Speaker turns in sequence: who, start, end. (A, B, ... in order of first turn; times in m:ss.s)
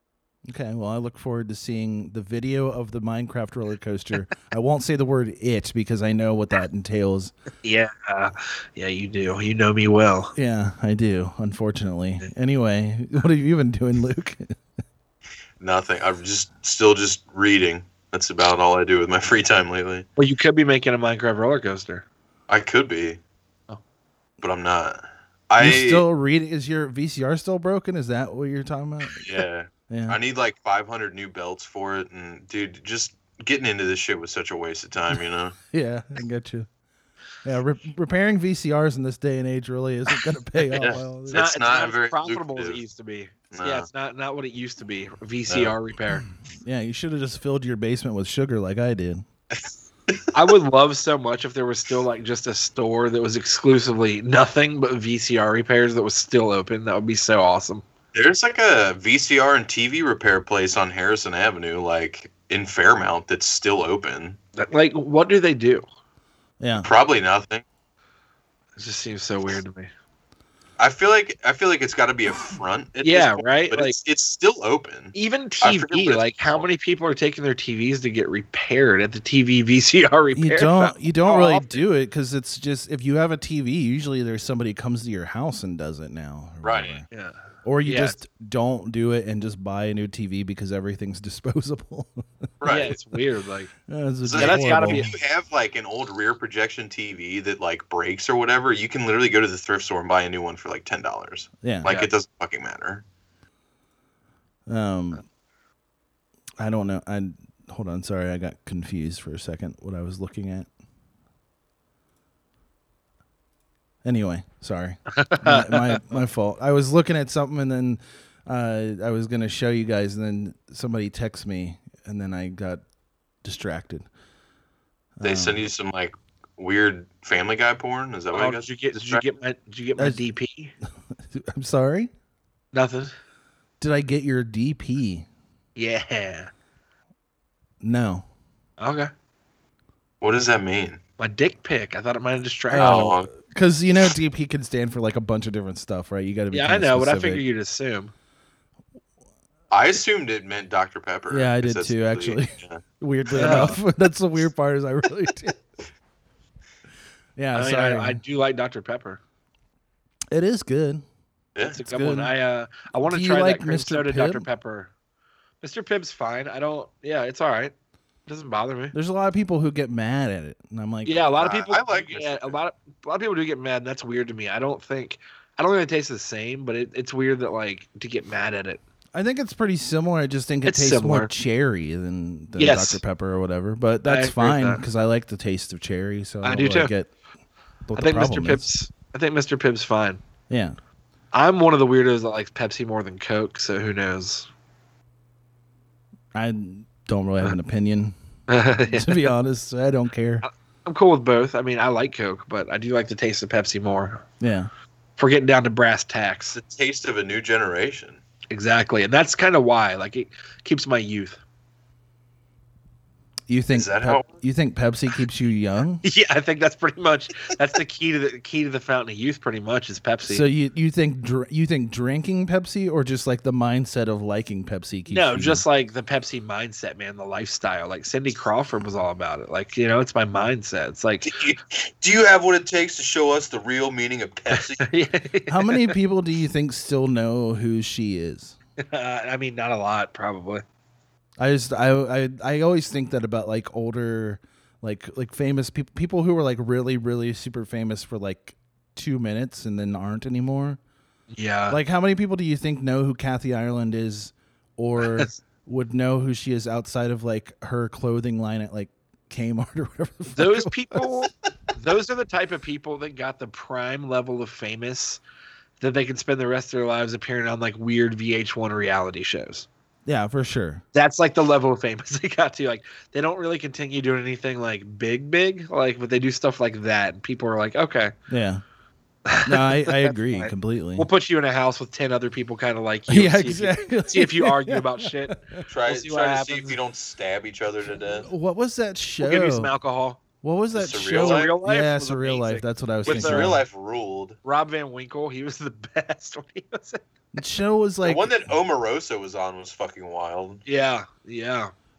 0:00.5-0:07.3 A
0:07.6-0:10.3 B
0:10.3-0:14.5 A
0:15.6-0:20.0 C
0:20.2-0:22.0 B
0:22.5-0:23.2 C
0:24.4-0:26.0 C
0:25.6-0:30.2 A
0:29.2-0:35.5 C
0:35.7-0:36.7 A
0:37.4-0:41.4 A
0:40.7-0:42.8 C
0:41.3-0:46.2 B
0:43.5-0:43.9 C
0:45.5-0:45.8 C
0:46.6-0:49.2 A
0:49.5-0:50.3 C
0:50.3-0:57.8 B
0:58.1-1:04.4 C
1:04.6-1:05.8 B
1:06.6-1:06.9 A
1:06.8-1:07.6 C
1:08.8-1:09.9 B
1:10.8-1:16.7 C
1:13.0-1:14.0 B
1:15.1-1:21.8 B
1:20.3-1:27.0 A
1:26.6-1:27.0 C
1:27.1-1:28.2 B
1:27.6-1:32.2 A
1:32.6-1:33.0 C
1:32.6-1:33.7 B
1:33.9-1:35.1 A
1:34.2-1:43.0 C
1:34.4-1:35.1 B
1:41.6-1:41.9 A
1:44.7-1:45.2 A
1:46.6-1:50.7 A
1:54.0-2:02.8 A
1:55.1-1:56.0 B
2:03.4-2:04.1 A
2:05.2-2:05.6 A
2:05.2-2:09.2 C
2:08.3-2:10.7 B
2:11.2-2:12.1 A
2:12.7-2:13.1 B
2:13.8-2:15.2 A
2:15.8-2:16.5 B
2:17.8-2:18.2 A
2:18.8-2:19.1 B
2:20.2-2:21.0 C
2:21.2-2:23.2 B
2:22.7-2:27.4 A
2:22.7-2:23.3 C
2:26.5-2:28.1 B
2:29.7-2:32.8 C
2:31.3-2:35.6 A
2:33.3-2:33.7 C
2:33.4-2:33.8 B
2:37.4-2:38.2 A
2:37.5-2:39.2 B
2:40.3-2:41.0 A
2:41.5-2:41.8 C
2:41.6-2:44.9 B
2:41.8-2:42.3 A
2:43.1-2:44.5 A
2:45.6-2:47.7 B
2:48.3-2:48.9 B
2:48.9-2:51.2 A
2:51.0-2:58.8 B
2:51.4-2:52.6 C
2:59.1-3:07.1 A
3:00.6-3:01.3 B
3:02.6-3:03.0 B
3:04.0-3:04.8 B
3:06.4-3:06.9 B
3:07.9-3:08.6 A
3:08.0-3:10.2 B
3:10.5-3:10.8 A
3:11.3-3:14.5 B
3:16.3-3:18.2 A
3:18.5-3:19.3 B
3:18.8-3:20.4 A
3:20.4-3:24.2 B
3:24.4-3:24.7 A
3:25.2-3:26.6 B
3:26.5-3:28.2 C
3:28.5-3:31.4 B
3:33.5-3:36.0 A
3:33.7-3:34.3 C
3:36.0-3:40.4 B
3:40.2-3:45.6 A
3:45.1-3:51.4 B
3:51.2-3:54.9 C
3:54.5-3:55.9 B
3:55.5-3:58.6 A
3:58.8-4:00.6 B
4:01.4-4:10.8 A
4:11.3-4:11.8 B
4:11.7-4:21.0 A
4:15.0-4:15.4 B
4:20.3-4:25.2 B
4:25.8-4:29.7 B
4:30.0-4:30.8 A
4:30.9-4:38.1 B
4:38.3-4:38.6 A
4:39.3-4:45.4 B
4:39.4-4:41.1 A
4:43.1-4:45.6 A
4:45.7-4:48.3 C
4:45.9-4:46.8 B
4:48.2-4:49.7 A
4:49.2-4:50.2 B
4:50.4-4:53.6 A
4:50.7-4:51.5 C
4:51.1-4:53.5 B
4:53.0-4:54.4 C
4:54.4-4:57.0 B
4:57.3-4:58.6 A
4:58.0-5:00.6 C
5:00.6-5:01.7 B